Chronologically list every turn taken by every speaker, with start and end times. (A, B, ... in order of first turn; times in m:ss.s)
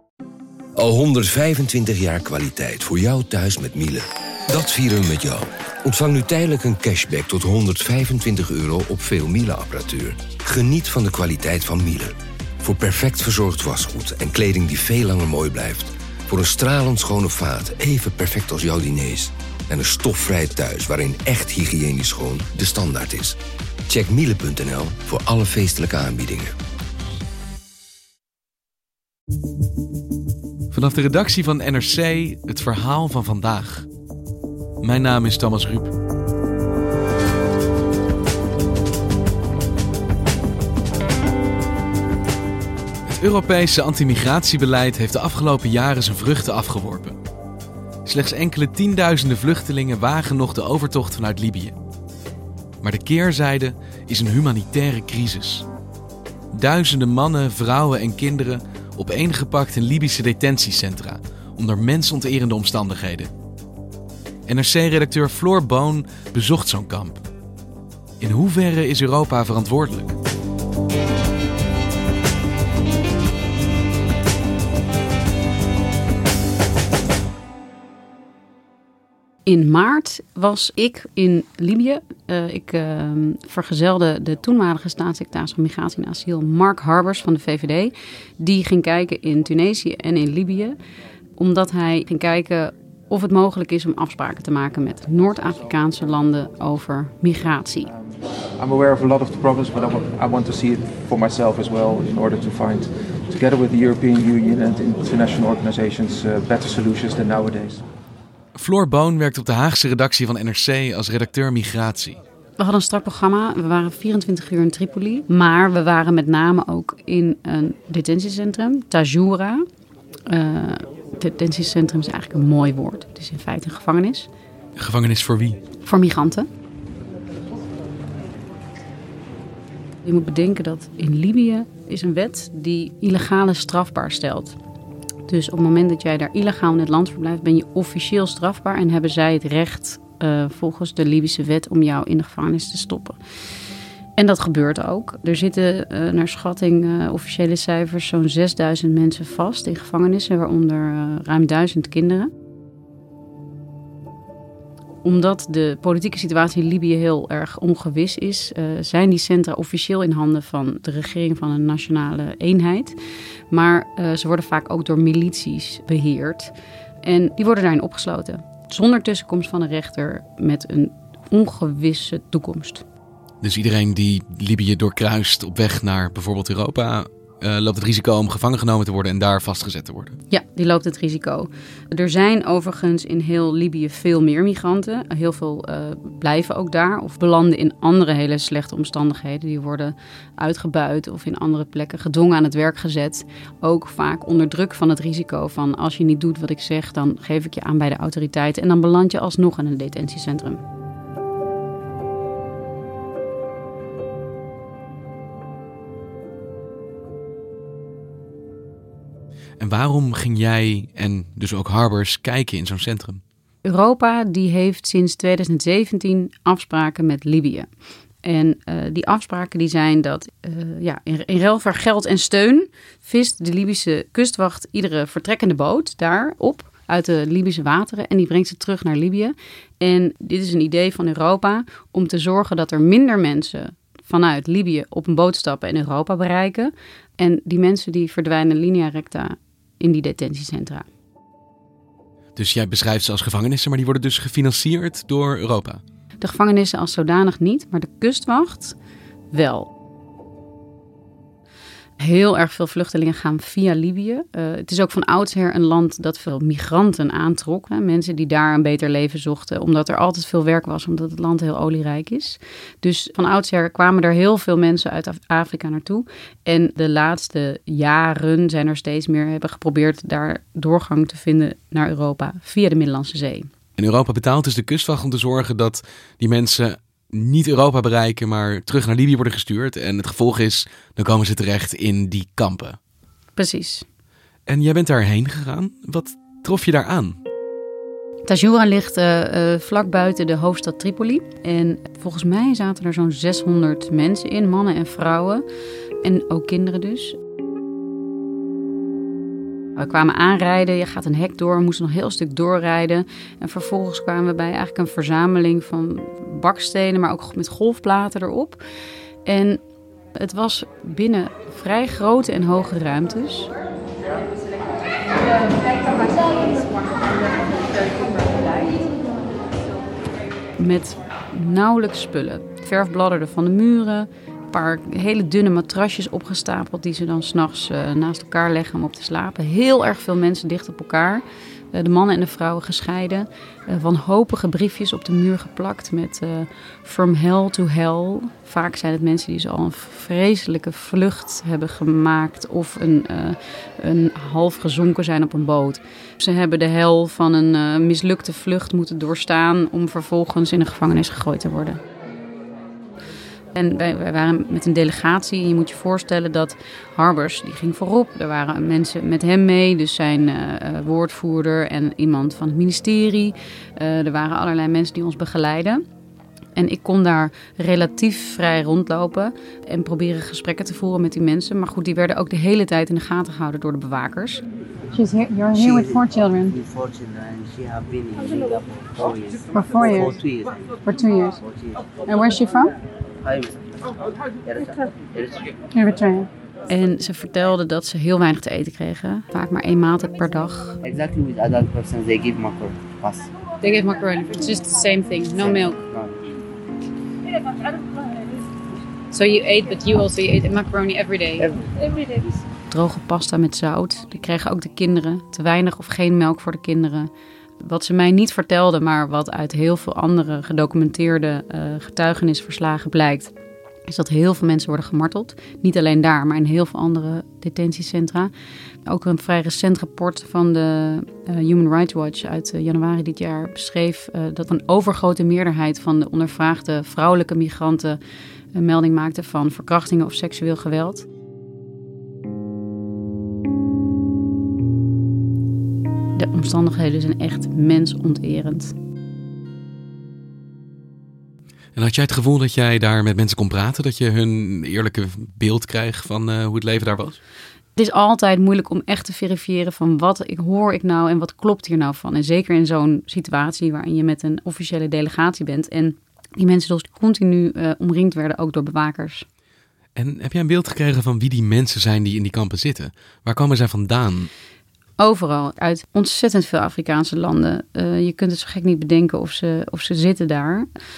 0:00.8-0:23.4 A
0:23.9-0:26.5 A
0:30.7-0:33.9 B
0:34.8-0:35.9 B
0:43.1-0:47.2 B
0:48.0-0:51.8 B
0:52.8-0:55.6 B
0:56.5-1:03.3 B
1:04.5-1:07.2 B
1:08.2-1:10.2 B
1:19.4-1:30.8 C
1:31.4-1:37.9 C
1:37.9-1:47.8 D
1:48.6-1:52.2 B
1:52.6-1:59.6 C
2:00.3-2:04.3 C
2:04.8-2:05.6 B
2:05.8-2:06.5 C
2:10.0-2:14.6 C
2:15.3-2:23.2 C
2:24.2-2:32.3 C
2:35.0-2:43.0 C
2:43.5-2:52.8 C
2:53.4-3:00.2 B
3:00.3-3:20.6 C
3:29.6-3:33.2 B
3:33.6-3:37.7 C
3:38.2-4:00.9 C
4:02.4-4:05.8 B
4:06.2-4:08.8 C
4:09.3-4:09.7 C
4:12.0-4:33.5 C
4:33.8-4:42.8 B
4:43.4-4:43.8 C
4:44.5-4:47.2 B
4:48.2-4:55.4 C
4:56.0-4:57.2 C
4:59.8-5:08.6 C
5:09.2-5:09.6 C
5:10.1-5:13.5 C
5:15.4-5:16.9 C
5:20.6-5:51.8 C
5:53.5-6:05.8 C
6:06.5-6:16.6 C
6:15.5-6:20.6 E
6:19.5-6:20.2 C
6:20.8-6:21.4 C
6:21.4-6:21.8 E
6:22.0-6:22.7 C
6:23.2-6:23.6 E
6:24.4-6:25.6 E
6:25.7-6:30.8 C
6:30.8-6:33.3 E
6:33.6-6:35.8 C
6:35.4-6:36.1 E
6:39.1-6:41.5 C
6:41.4-6:42.4 E
6:42.7-6:53.3 C
6:53.9-6:58.3 C
6:58.8-7:08.0 C
7:08.5-7:11.1 C
7:16.2-7:18.7 C
7:21.8-7:27.2 B
7:27.8-7:39.2 C
7:40.0-7:44.3 B
7:45.0-7:50.7 C